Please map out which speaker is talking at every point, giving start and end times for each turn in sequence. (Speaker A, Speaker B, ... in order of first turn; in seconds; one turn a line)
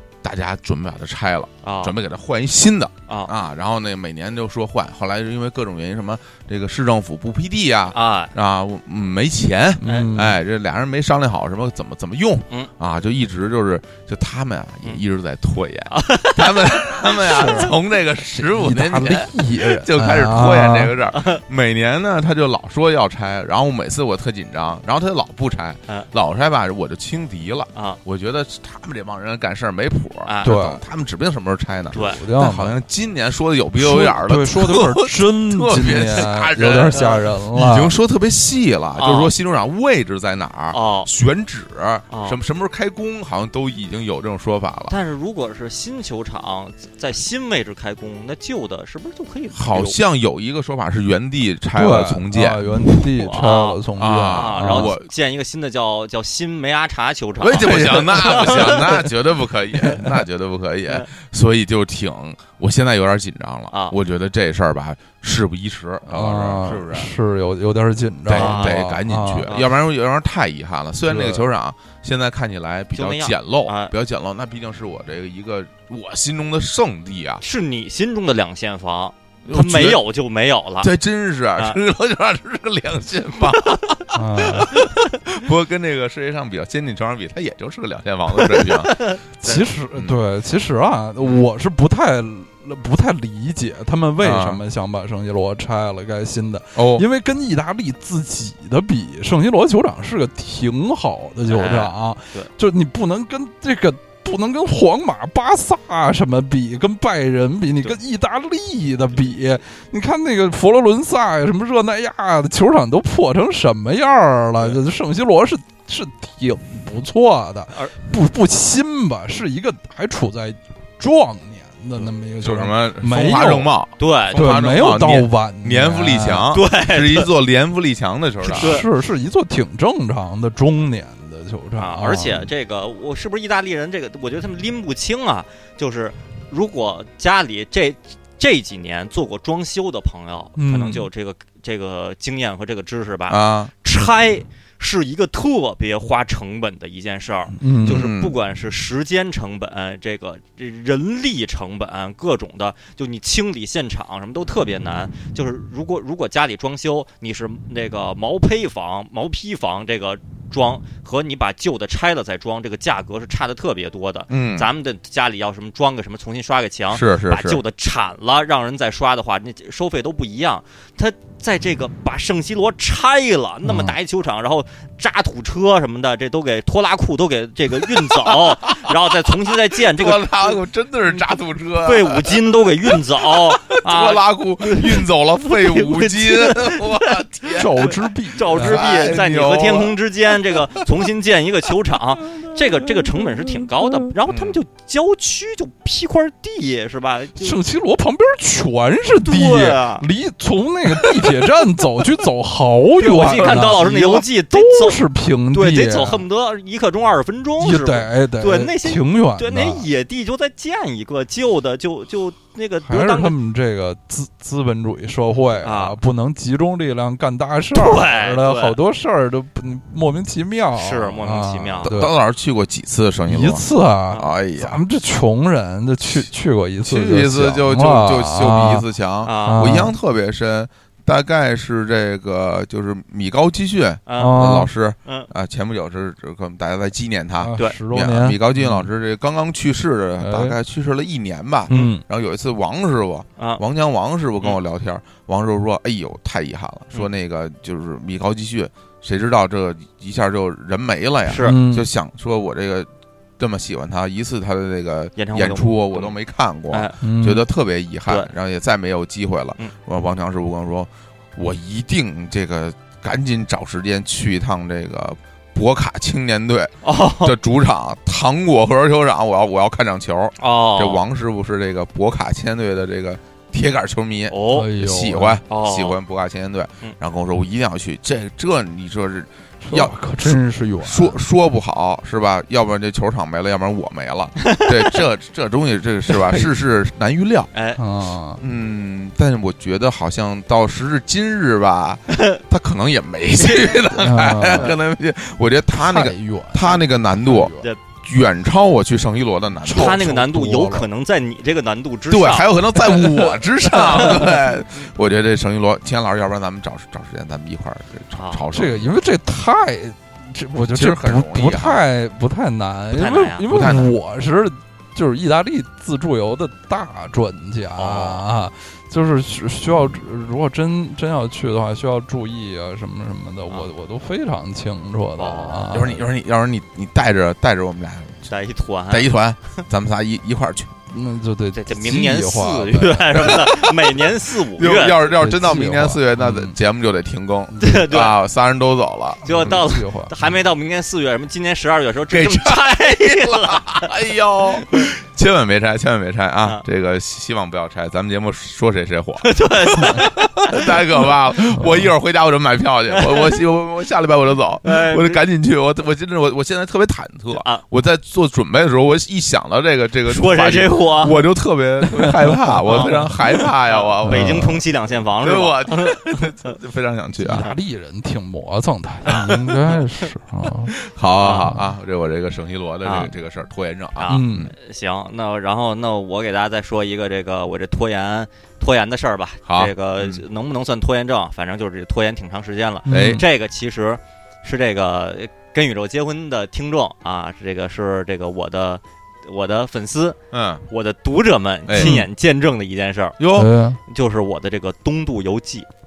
Speaker A: 0.2-45.0
Speaker B: 1.6-1.9
Speaker B: 7.9-8.3
Speaker C: 9.8-10.4
Speaker B: 9.8-10.1
Speaker B: 15.9-17.7
Speaker C: 17.2-17.7
Speaker C: 18.3-20.9
Speaker B: 21.1-21.4
Speaker B: 30.3-30.5
Speaker C: 30.4-30.8
Speaker B: 31.9-32.2
Speaker C: 32.0-32.8
Speaker C: 33.8-38.0
Speaker B: 39.0-39.3
Speaker B: 40.7-41.1
Speaker B: 42.1-42.4
Speaker B: 44.9-50.0
Speaker A: 49.5-52.6
Speaker C: 51.8-54.9
Speaker B: 52.9-59.0
Speaker A: 54.0-55.1
Speaker A: 57.4-67.1
Speaker C: 57.6-58.8
Speaker B: 63.7-64.0
Speaker C: 66.1-69.5
Speaker A: 68.3-77.4
Speaker B: 68.3-68.9
Speaker B: 69.5-69.7
Speaker C: 71.1-71.4
Speaker B: 72.9-73.9
Speaker B: 77.4-80.9
Speaker A: 79.5-80.0
Speaker A: 80.8-89.0
Speaker B: 83.7-84.0
Speaker C: 84.1-84.7
Speaker B: 88.4-89.7
Speaker C: 89.4-123.7
Speaker A: 94.2-94.6
Speaker A: 96.8-97.1
Speaker B: 101.5-102.5
Speaker A: 122.4-128.8
Speaker B: 124.0-124.5
Speaker C: 124.4-126.5
Speaker B: 126.5-127.3
Speaker B: 128.5-128.9
Speaker C: 128.6-132.5
Speaker B: 131.8-180.6
Speaker C: 140.6-141.1
Speaker A: 143.3-143.7
Speaker C: 147.6-148.0
Speaker A: 147.8-148.4
Speaker A: 164.3-164.7
Speaker A: 166.9-167.6
Speaker C: 173.6-174.0
Speaker A: 177.8-188.0
Speaker B: 181.8-197.6
Speaker C: 187.5-189.2
Speaker A: 188.5-190.0
Speaker C: 193.2-194.1
Speaker A: 194.3-194.6
Speaker C: 197.4-206.2
Speaker B: 199.2-200.1
Speaker B: 203.0-205.0
Speaker A: 203.4-203.7
Speaker B: 205.5-213.3
Speaker C: 207.6-209.9
Speaker C: 212.8-222.1
Speaker B: 215.6-216.0
Speaker B: 217.8-218.8
Speaker B: 220.8-221.9
Speaker A: 221.8-224.8
Speaker C: 223.3-228.8
Speaker A: 226.8-287.5
Speaker B: 229.2-229.8
Speaker C: 229.4-229.9
Speaker B: 234.1-234.5
Speaker C: 234.2-234.7
Speaker B: 235.1-235.3
Speaker C: 237.4-238.9
Speaker C: 240.2-240.6
Speaker C: 241.7-242.0
Speaker B: 251.2-251.6
Speaker C: 251.4-251.9
Speaker B: 255.2-256.1
Speaker B: 256.7-257.0
Speaker C: 257.0-257.4
Speaker B: 266.8-267.4
Speaker B: 270.4-271.0
Speaker B: 274.3-274.7
Speaker C: 274.5-275.4
Speaker B: 275.5-276.0
Speaker C: 279.6-281.2
Speaker B: 284.4-285.0
Speaker B: 287.5-287.8
Speaker C: 287.8-288.4
Speaker A: 288.4-300.1
Speaker B: 292.1-292.4
Speaker B: 293.4-293.7
Speaker C: 293.9-294.7
Speaker B: 294.5-294.8
Speaker C: 295.7-297.7
Speaker C: 299.6-300.9
Speaker B: 299.7-302.6
Speaker A: 302.1-308.9
Speaker B: 303.8-304.3
Speaker B: 308.1-308.4
Speaker C: 308.5-326.0
Speaker A: 310.7-311.8
Speaker B: 312.9-313.5
Speaker A: 313.5-313.9
Speaker B: 317.8-318.2
Speaker B: 325.2-325.8
Speaker A: 325.7-328.3
Speaker B: 328.3-329.1
Speaker A: 328.9-330.7
Speaker C: 330.9-333.4
Speaker B: 331.5-335.0
Speaker A: 334.6-339.6
Speaker C: 335.1-336.6
Speaker C: 337.5-337.9
Speaker B: 337.6-338.2
Speaker B: 339.2-343.9
Speaker C: 339.3-340.1
Speaker A: 342.1-364.6
Speaker B: 344.6-344.9
Speaker B: 349.2-350.8
Speaker C: 351.6-351.9
Speaker B: 352.9-353.4
Speaker B: 354.6-355.2
Speaker B: 357.3-357.6
Speaker B: 360.1-361.2
Speaker C: 362.0-363.2
Speaker B: 362.7-363.0
Speaker B: 363.6-366.6
Speaker C: 364.1-364.6
Speaker A: 365.2-367.5
Speaker C: 367.2-370.7
Speaker A: 370.7-374.5
Speaker B: 371.2-371.6
Speaker C: 371.3-371.6
Speaker B: 372.8-373.1
Speaker B: 374.0-390.2
Speaker C: 374.1-374.5
Speaker A: 379.5-380.2
Speaker C: 382.9-383.2
Speaker A: 382.9-383.2
Speaker A: 390.3-390.7
Speaker B: 390.7-393.2
Speaker A: 391.7-392.0
Speaker C: 391.8-392.1
Speaker A: 393.2-393.5
Speaker C: 393.4-393.8
Speaker B: 393.9-395.7